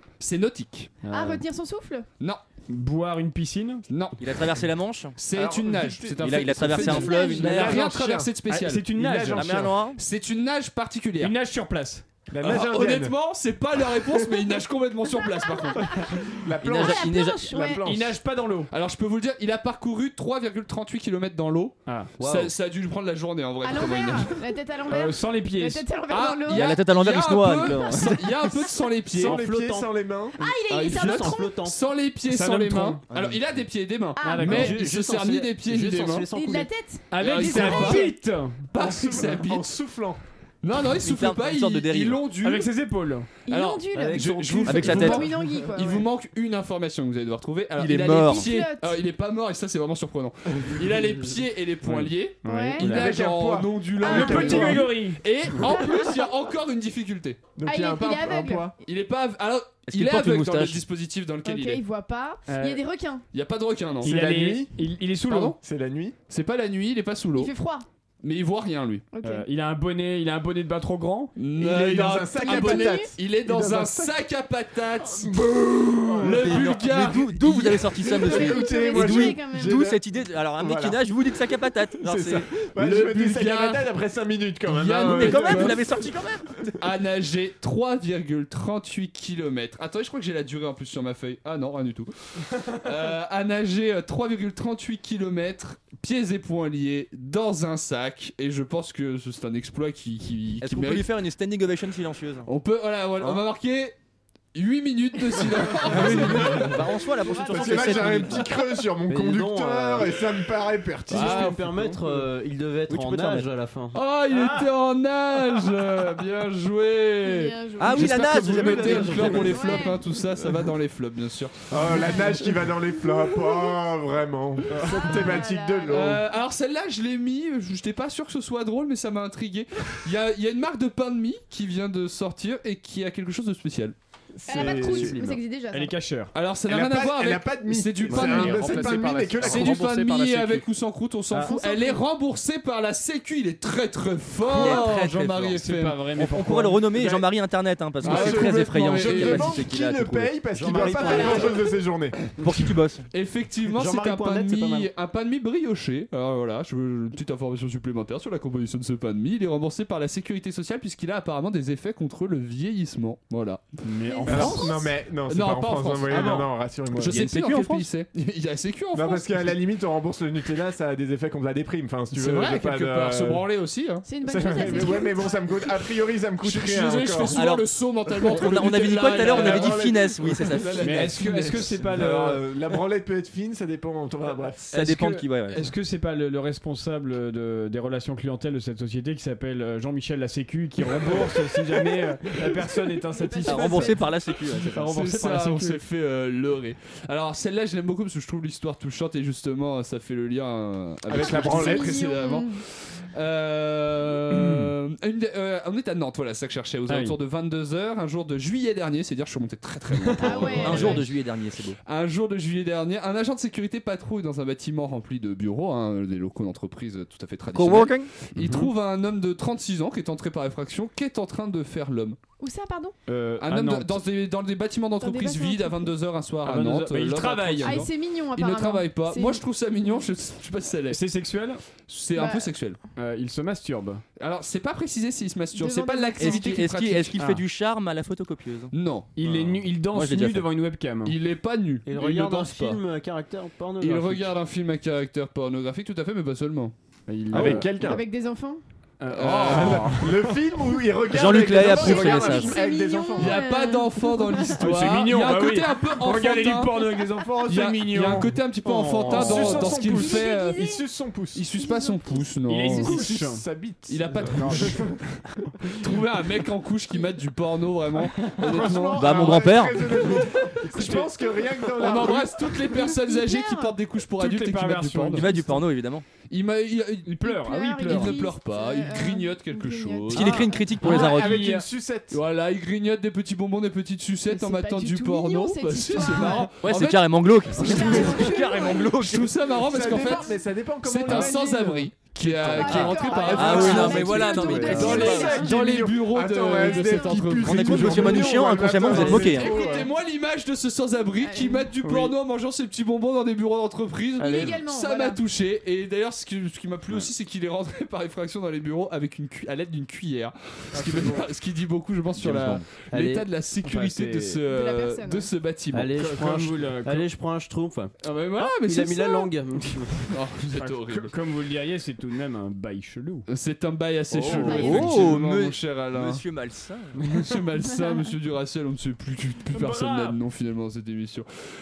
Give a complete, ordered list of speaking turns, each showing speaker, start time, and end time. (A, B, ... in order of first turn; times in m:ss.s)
0:00.2-0:01.0 A
0:01.0-0:01.4 B
0:01.1-0:02.0 C
0:02.7-0:03.8 B
0:03.9-0:04.2 A
0:04.2-0:05.2 D
0:05.2-0:08.9 A
0:05.4-0:08.3 E
0:06.2-0:07.8 D
0:06.6-0:06.9 B
0:06.8-0:07.5 C
0:08.4-0:09.7 B
0:09.0-0:09.8 E
0:09.3-0:10.0 D
0:09.9-0:11.4 A
0:11.2-0:12.1 B
0:12.3-0:13.2 E
0:12.4-0:16.1 A
0:15.2-0:17.8 C
0:16.2-0:18.2 E
0:16.6-0:17.5 D
0:17.8-0:18.7 B
0:18.7-0:24.4 A
0:21.9-0:22.1 B
0:22.2-0:22.5 F
0:23.6-0:26.8 C
0:24.9-0:25.8 B
0:26.1-0:29.4 A
0:26.5-0:28.4 D
0:29.1-0:30.4 E
0:29.2-0:31.8 F
0:30.4-0:31.5 C
0:30.7-0:36.3 A
0:32.3-0:33.0 B
0:33.1-0:33.4 D
0:34.2-0:34.6 C
0:34.2-0:34.8 B
0:34.4-0:36.7 F
0:36.4-0:38.1 C
0:37.1-0:39.3 B
0:37.2-0:38.1 A
0:38.7-0:39.7 A
0:38.8-0:40.2 E
0:40.6-0:42.7 A
0:41.0-0:42.3 D
0:42.3-0:43.3 B
0:43.5-0:46.0 C
0:43.5-0:57.4 A
0:43.9-0:45.2 F
0:44.6-0:45.3 D
0:47.8-0:48.5 D
0:48.3-0:49.0 C
0:51.8-0:53.0 B
0:52.4-0:52.9 C
0:52.8-0:54.9 E
0:54.0-0:54.8 C
0:54.0-0:55.2 B
0:55.6-0:56.2 C
0:57.6-0:58.8 E
0:57.7-0:58.7 C
0:58.8-1:01.8 A
0:59.9-1:00.8 D
1:01.4-1:03.2 C
1:02.5-1:02.8 B
1:03.3-1:04.2 A
1:04.0-1:05.6 B
1:04.0-1:04.8 E
1:05.3-1:05.6 A
1:05.6-1:06.2 E
1:06.3-1:07.5 A
1:07.4-1:07.9 C
1:08.2-1:09.0 A
1:09.1-1:09.5 C
1:09.2-1:11.4 B
1:11.4-1:18.1 A
1:11.6-1:14.2 E
1:12.4-1:13.1 C
1:15.1-1:16.8 E
1:16.3-1:22.5 D
1:18.0-1:19.8 C
1:18.2-1:20.0 E
1:20.6-1:21.0 E
1:22.0-1:25.8 E
1:22.8-1:23.9 A
1:24.7-1:25.8 A
1:25.0-1:26.5 D
1:26.8-1:41.1 A
1:40.6-1:42.5 D
1:42.5-1:43.9 A
1:44.5-1:46.7 A
1:45.9-1:48.4 D
1:45.9-1:46.8 F
1:46.0-1:46.6 E
1:47.2-1:48.6 C
1:47.5-1:51.5 E
1:49.1-1:50.1 F
1:51.1-1:54.0 F
1:51.1-1:51.6 A
1:52.9-1:53.5 D
1:53.9-2:02.4 A
1:57.2-1:58.2 C
1:57.8-1:59.5 D
1:58.2-1:59.8 F
1:59.1-2:00.0 C
2:01.7-2:06.2 E
2:04.7-2:05.2 B
2:04.8-2:06.0 C
2:05.9-2:14.0 A
2:14.4-2:15.2 E
2:14.5-2:15.9 C
2:14.6-2:15.3 F
2:14.6-2:16.3 B
2:16.3-2:26.1 A
2:16.7-2:19.9 E
2:18.1-2:20.2 B
2:21.3-2:21.6 B
2:21.4-2:22.0 C
2:24.4-2:25.6 D
2:24.5-2:24.8 B
2:25.5-2:27.2 B
2:26.1-2:30.4 D
2:28.0-2:28.3 B
2:28.0-2:29.6 A
2:28.0-2:32.2 E
2:30.5-2:31.6 F
2:31.0-2:31.5 C
2:32.4-2:33.1 D
2:33.1-2:43.8 A
2:33.7-2:34.9 F
2:43.8-2:44.8 B
2:44.1-2:44.9 C
2:44.3-2:47.3 E
2:45.3-2:49.5 A
2:47.1-2:47.8 D
2:48.9-2:53.5 E
2:52.1-2:54.0 A
2:54.0-2:55.7 C
2:54.2-2:57.4 E
2:54.7-2:54.9 A
2:56.4-3:01.9 A
2:57.2-2:57.7 D
2:58.2-3:01.1 D
2:59.1-2:59.7 B
2:59.2-3:01.0 E
3:00.8-3:02.4 B
3:01.8-3:04.7 E
3:04.7-3:05.7 D
3:04.7-3:15.8 B
3:13.1-3:14.1 C
3:13.4-3:15.0 D
3:14.8-3:31.1 A
3:21.1-3:22.0 E
3:21.2-3:22.6 C
3:24.3-3:24.7 B
3:26.9-3:27.2 B
3:29.9-3:31.0 B
3:30.2-3:31.0 C
3:30.6-3:31.8 D
3:31.8-3:42.2 A
3:37.5-3:38.1 D
3:38.4-3:38.7 B
3:42.4-3:43.0 C
3:43.1-3:44.0 B
3:43.4-3:51.1 A
3:45.0-3:45.9 C
3:46.4-3:47.9 B
3:47.6-3:49.4 C
3:50.9-3:51.6 B
3:51.8-3:52.8 A
3:52.2-3:52.5 C
3:53.0-3:54.0 B
3:54.2-3:57.2 A
3:55.5-3:56.6 C
3:56.2-3:58.7 D
3:57.2-3:57.4 B
3:58.7-3:59.3 A
3:59.2-4:01.2 B
3:59.8-4:00.5 D
4:01.0-4:02.8 A
4:01.9-4:04.4 F
4:03.8-4:06.7 A
4:07.1-4:07.9 B
4:07.3-4:08.0 E
4:07.8-4:08.6 C
4:09.0-4:10.3 B
4:09.1-4:10.0 A
4:09.4-4:13.4 E
4:11.1-4:12.6 D
4:11.6-4:14.7 C
4:13.2-4:20.6 A
4:14.6-4:18.4 B
4:18.6-4:19.5 F
4:19.0-4:21.4 E
4:19.8-4:20.8 C
4:21.3-4:23.1 A
4:21.6-4:22.3 C
4:22.4-4:23.4 B
4:22.8-4:24.9 E
4:23.9-4:25.0 A
4:24.2-4:24.9 B
4:25.8-4:29.5 A
4:28.2-4:28.7 B
4:28.4-4:32.5 E
4:29.0-4:29.9 D
4:30.0-4:31.1 B
4:31.8-4:35.3 A
4:32.7-4:33.8 C
4:34.1-4:35.6 B
4:35.1-4:36.1 D
4:36.3-4:40.5 A
4:37.0-4:38.2 B
4:37.2-4:40.8 C
4:40.1-4:41.5 D
4:40.8-4:41.7 B
4:40.8-4:42.2 E
4:42.1-5:16.1 A
4:44.3-4:46.5 C
4:46.6-4:49.3 D
4:47.6-4:48.9 C
4:49.5-4:59.9 E
4:49.9-4:50.2 C
4:52.4-4:55.6 C
4:53.3-4:55.4 D
4:53.5-4:53.9 B
4:56.7-4:57.2 C
4:57.4-4:59.4 D
4:58.9-4:59.3 B
4:59.3-4:59.9 C
5:01.2-5:01.7 C
5:01.8-5:02.2 B
5:04.2-5:05.2 C
5:10.8-5:11.2 B
5:12.2-5:12.8 D
5:12.9-5:13.3 F
5:13.6-5:14.4 B
5:14.5-5:15.3 C
5:15.7-5:20.0 F
5:15.9-5:17.1 B
5:18.3-5:19.3 A
5:20.1-5:21.1 A
5:20.4-5:23.3 B
5:23.3-5:26.2 A
5:24.1-5:27.0 D
5:24.3-5:24.6 B
5:24.3-5:25.0 C
5:27.0-5:27.3 B
5:27.1-5:31.3 A
5:27.7-5:28.1 C
5:29.5-5:30.2 B